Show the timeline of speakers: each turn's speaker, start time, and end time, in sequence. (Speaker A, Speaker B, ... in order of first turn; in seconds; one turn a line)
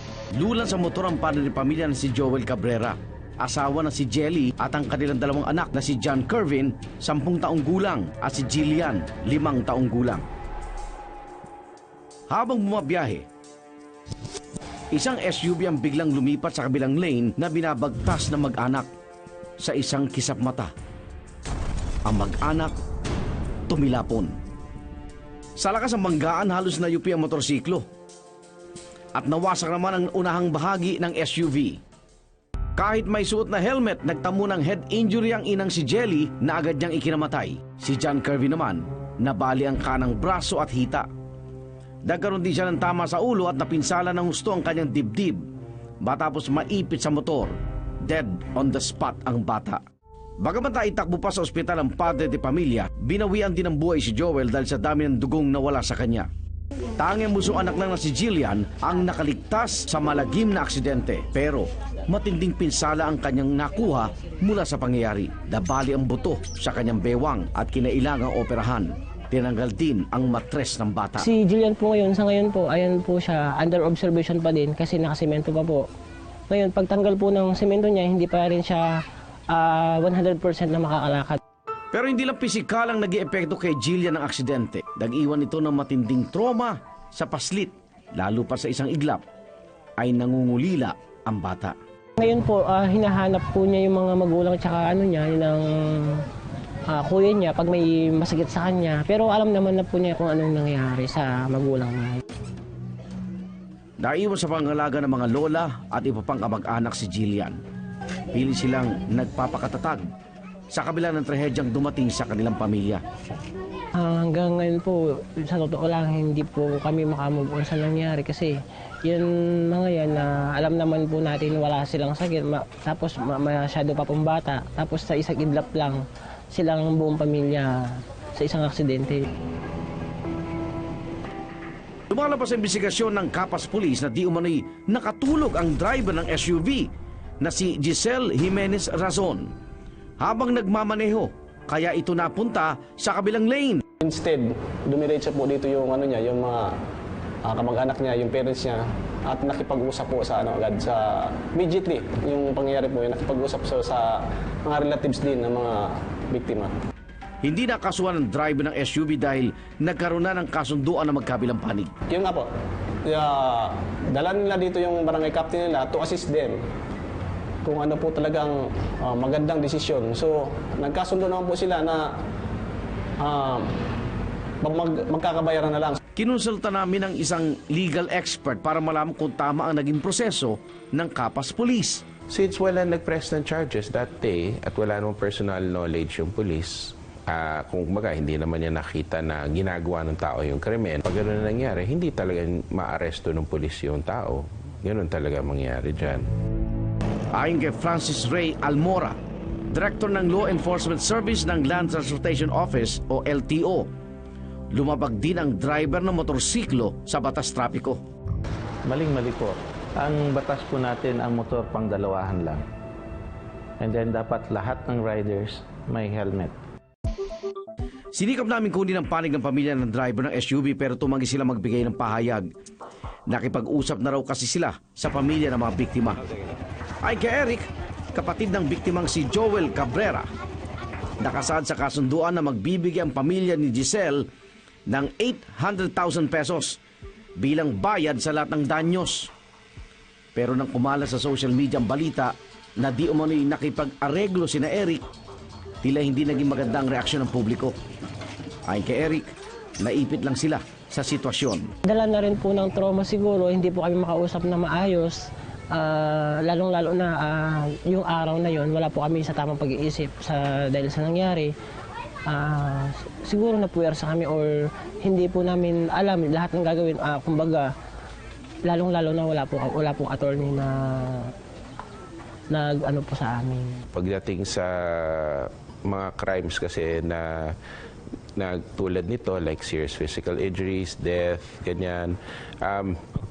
Speaker A: 0.3-10.2
Speaker A: 12.3-13.2
Speaker A: 14.9-18.9
Speaker A: 19.6-20.7
Speaker A: 22.1-22.8
Speaker A: 23.7-24.4
Speaker A: 25.6-27.8
Speaker A: 29.1-31.8
Speaker A: 32.8-41.1
Speaker A: 42.0-45.4
Speaker A: 46.0-49.8
Speaker A: 50.4-56.3
Speaker A: 57.0-71.3
Speaker B: 71.2-75.9
Speaker B: 76.5-81.4
Speaker A: 81.9-89.2
Speaker A: 90.0-91.8
Speaker B: 92.2-96.3
Speaker B: 96.9-102.2
Speaker A: 104.0-107.6
Speaker A: 108.3-110.1
Speaker A: 110.7-113.0
Speaker B: 114.0-129.3
Speaker A: 132.1-136.9
Speaker A: 137.4-139.5
Speaker A: 140.2-143.8
Speaker C: 144.0-146.8
Speaker C: 147.4-156.8
Speaker A: 157.4-161.9
Speaker C: 162.1-162.5
Speaker C: 163.0-166.6
Speaker C: 167.6-172.1
Speaker C: 173.2-173.7
Speaker C: 174.6-176.0
Speaker A: 176.2-182.1
Speaker D: 182.3-196.2
Speaker A: 197.3-199.2
Speaker A: 199.7-203.9
Speaker A: 204.7-208.0
Speaker E: 208.8-212.6
Speaker E: 213.8-216.6
Speaker A: 218.1-222.5
Speaker A: 223.3-226.2
Speaker A: 227.0-230.2
Speaker A: 231.2-234.3
Speaker A: 234.9-236.8
Speaker A: 237.4-239.3
Speaker A: 240.3-245.0
Speaker A: 245.8-247.8
Speaker A: 248.7-249.3
Speaker A: 249.8-251.7
Speaker B: 251.8-261.5
Speaker B: 262.3-267.7
Speaker B: 268.6-271.3
Speaker B: 272.5-273.9
Speaker D: 273.9-277.6
Speaker D: 278.4-283.0